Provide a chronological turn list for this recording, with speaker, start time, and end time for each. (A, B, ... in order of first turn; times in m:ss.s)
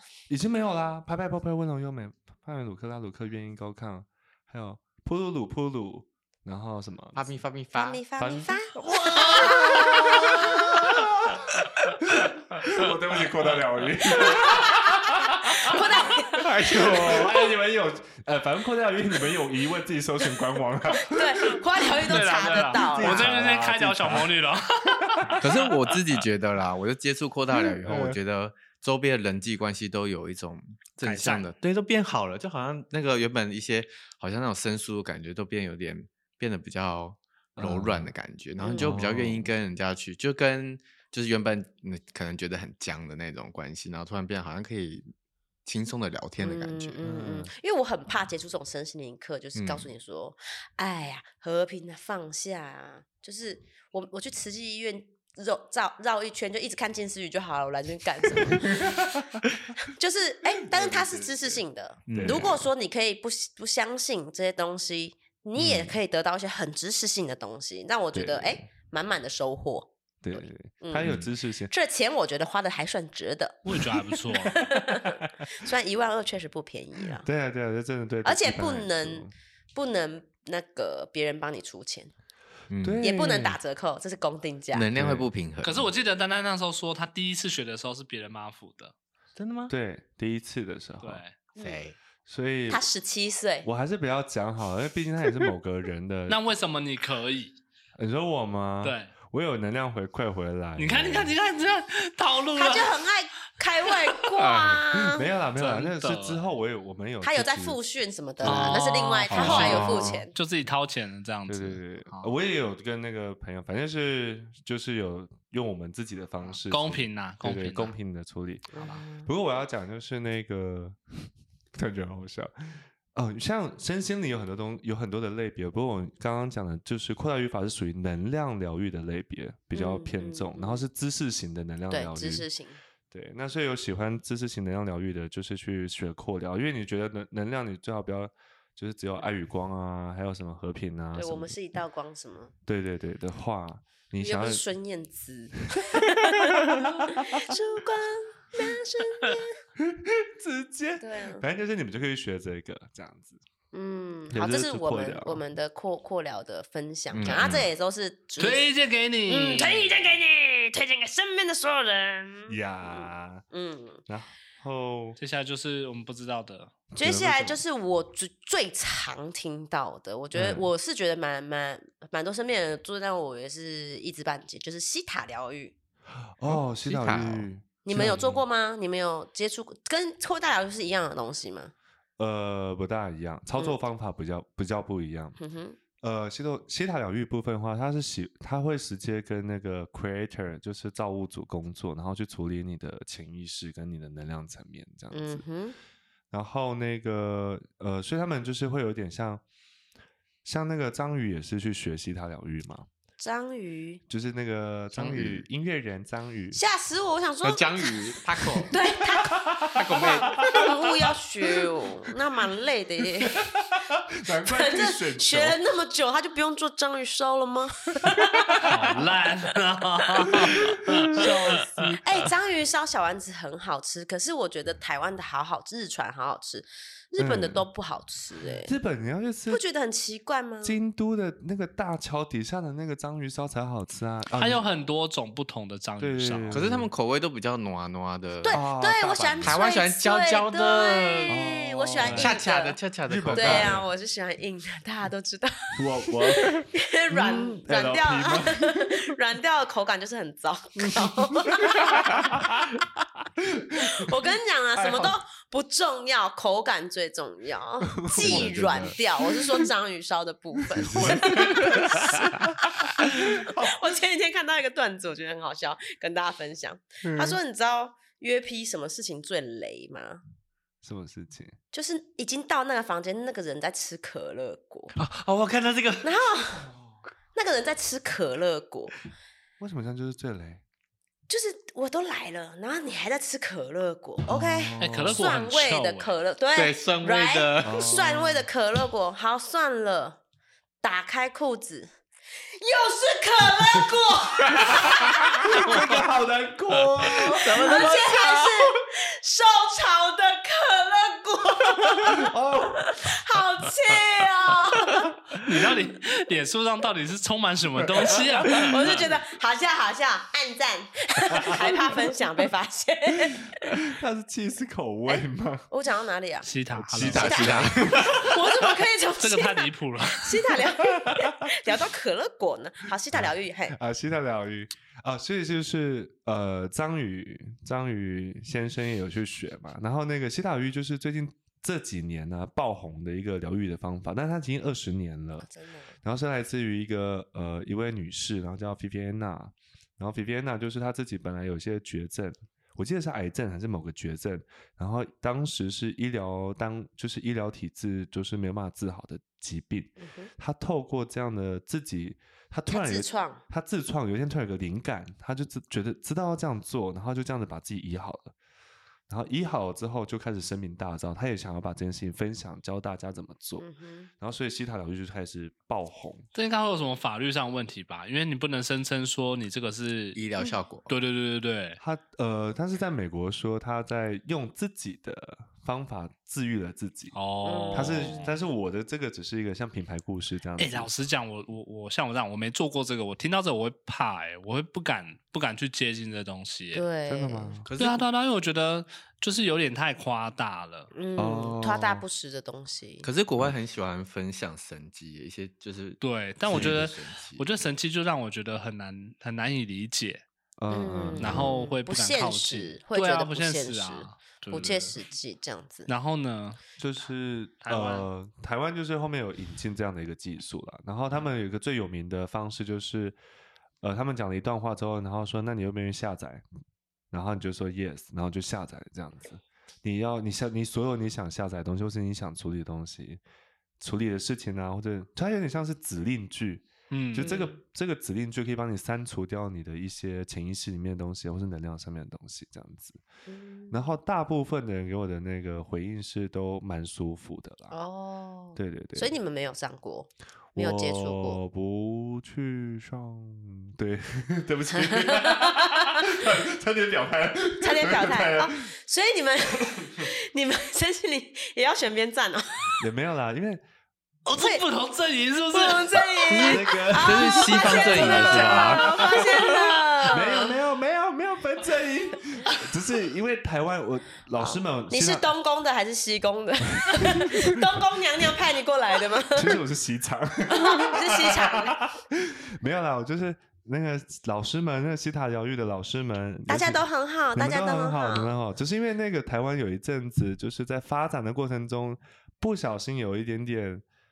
0:00.3-0:07.3 A
0:07.2-0:08.0 B
0:07.8-0:10.4 C
0:08.2-0:11.5 A
0:12.0-0:15.8 A
0:14.1-0:17.3 C
0:16.3-0:17.4 B
0:16.6-0:21.7 A
0:20.9-0:23.3 C
0:22.0-0:25.8 D
0:22.7-0:25.4 A
0:25.4-0:45.1 B
0:27.6-0:28.2 A
0:31.0-0:31.5 D
0:37.6-0:38.1 A
0:38.6-0:38.9 C
0:38.8-0:39.5 A
0:45.6-0:47.0 B
0:46.4-0:58.9 C
0:47.0-0:47.5 A
0:49.6-0:49.9 B
0:58.4-0:59.4 A
0:59.9-1:17.3 C
1:00.5-1:02.7 A
1:02.1-1:02.6 B
1:05.6-1:05.9 A
1:08.1-1:08.7 A
1:10.2-1:11.7 A
1:11.0-1:11.3 B
1:13.6-1:14.6 D
1:17.2-1:19.3 A
1:18.2-1:22.1 C
1:22.7-1:23.0 B
1:22.8-1:23.6 A
1:23.0-1:24.9 C
1:24.7-1:25.9 B
1:24.9-1:25.3 A
1:25.6-1:28.9 D
1:29.4-1:29.7 B
1:29.7-1:31.2 A
1:31.0-1:31.4 D
1:31.6-1:32.0 B
1:32.3-1:32.8 A
1:32.7-1:33.7 C
1:33.6-1:36.4 A
1:36.3-1:37.6 D
1:38.0-1:41.3 A
1:38.8-1:39.1 D
1:40.8-1:43.0 D
1:42.6-1:45.3 C
1:44.4-1:44.8 B
1:45.0-1:47.8 A
1:45.6-1:46.5 D
1:47.2-1:50.3 C
1:48.4-1:48.7 A
1:48.4-1:51.8 D
1:49.3-1:50.2 B
1:49.3-1:50.2 A
1:51.5-2:12.5 A
1:56.7-1:58.0 D
1:58.7-1:59.3 C
2:09.7-2:10.8 C
2:11.9-2:12.8 C
2:13.1-2:21.6 A
2:21.2-2:22.5 C
2:22.7-2:24.6 A
2:24.2-2:29.6 C
2:25.8-2:27.6 A
2:29.8-2:33.4 A
2:31.0-2:31.4 C
2:33.7-2:38.7 C
2:34.3-2:35.4 A
2:37.1-2:37.7 B
2:37.3-2:37.6 A
2:38.4-2:39.9 D
2:39.3-2:44.0 C
2:42.5-2:43.4 A
2:44.1-2:45.2 A
2:45.2-2:46.8 D
2:46.9-2:47.6 A
2:47.0-2:55.8 C
2:50.3-2:50.7 A
2:56.2-2:58.4 A
2:56.5-2:57.5 B
2:57.8-3:01.7 C
3:02.2-3:05.4 A
3:05.4-3:05.8 C
3:06.0-3:15.5 A
3:15.1-3:15.8 C
3:16.3-3:19.4 A
3:20.4-3:22.9 A
3:23.2-3:24.0 C
3:24.1-3:26.6 A
3:24.9-3:25.4 B
3:26.5-3:33.5 C
3:27.4-3:28.7 B
3:29.2-3:30.9 A
3:29.7-3:30.5 B
3:33.3-3:35.6 A
3:34.3-3:38.7 C
3:38.2-3:38.6 A
3:38.6-3:41.9 D
3:40.2-3:40.6 C
3:41.0-3:42.2 A
3:42.0-3:48.7 C
3:47.2-3:47.7 A
3:48.6-3:49.6 A
3:49.5-3:50.8 C
3:50.6-3:54.7 A
3:54.3-3:56.6 D
3:56.0-3:56.9 A
3:56.5-3:58.6 B
3:58.4-4:02.8 C
3:58.5-3:59.6 A
3:59.4-4:01.5 B
4:01.3-4:02.4 A
4:02.0-4:03.8 B
4:03.1-4:03.9 A
4:03.3-4:12.4 C
4:05.8-4:08.9 A
4:10.9-4:14.1 A
4:13.8-4:30.2 C
4:14.8-4:15.1 A
4:18.0-4:19.4 A
4:18.2-4:19.0 B
4:20.7-4:23.8 A
4:20.9-4:21.2 B
4:27.0-4:27.4 A
4:30.8-4:31.6 A
4:31.7-4:34.9 C
4:35.0-4:36.2 B
4:36.0-4:36.7 C
4:37.3-4:39.0 C
4:39.6-4:40.6 A
4:41.3-4:50.2 C
4:44.3-4:45.3 A
4:44.8-4:46.1 D
4:46.6-4:47.9 B
4:47.6-4:48.5 A
4:50.8-4:51.9 C
4:52.6-4:55.8 C
4:54.7-4:58.7 A
4:57.2-5:02.3 C
4:57.2-4:58.0 B
5:02.0-5:03.1 A
5:02.9-5:05.1 C
5:04.9-5:05.4 A
5:05.3-5:09.0 D
5:07.8-5:09.0 A
5:08.5-5:13.8 C
5:11.3-5:12.0 A
5:13.7-5:15.7 A
5:15.1-5:16.5 C
5:16.4-5:17.7 D
5:16.7-5:18.0 A
5:17.0-5:18.3 B
5:17.2-5:23.8 C
5:18.6-5:20.6 D
5:20.9-5:21.7 A
5:23.1-5:35.5 A
5:35.4-5:36.0 C
5:36.0-5:58.3 A
5:50.0-5:50.3 C
5:52.7-5:53.4 C
5:59.1-6:03.6 A
6:03.6-6:04.1 C
6:04.2-6:06.2 A
6:06.4-6:10.2 D
6:10.2-6:10.9 B
6:10.9-6:11.8 D
6:11.8-6:17.2 A
6:17.1-6:18.4 D
6:17.4-6:18.2 C
6:17.7-6:20.9 A
6:20.6-6:26.8 D
6:26.7-6:27.6 C
6:27.1-6:27.7 A
6:27.7-6:28.1 B
6:27.8-6:30.9 D
6:30.9-6:33.1 C
6:31.2-6:32.0 A
6:33.0-6:37.5 B
6:36.0-6:40.2 D
6:36.5-6:36.9 A
6:40.6-6:41.5 A
6:40.7-6:45.9 C
6:41.2-6:45.0 D
6:45.9-6:46.6 D
6:46.8-6:53.2 A
6:47.6-6:48.1 D
6:53.8-6:56.4 A
6:57.1-7:03.2 A
7:03.8-7:13.0 A
7:06.9-7:07.5 D
7:13.3-7:13.9 C
7:13.7-7:17.7 A
7:17.7-7:21.4 C
7:18.6-7:19.2 A
7:20.5-7:28.6 A
7:24.7-7:26.3 C
7:27.6-7:32.8 C
7:29.8-7:30.0 A
7:32.8-7:33.6 A
7:34.3-7:36.4 D
7:34.3-7:34.6 C
7:35.5-7:40.5 C
7:36.3-7:38.9 B
7:36.5-7:39.5 A
7:40.1-7:45.3 A
7:44.3-7:49.6 C
7:46.9-7:47.8 A
7:49.3-8:03.8 A
7:50.5-7:51.8 C
7:56.5-7:58.4 C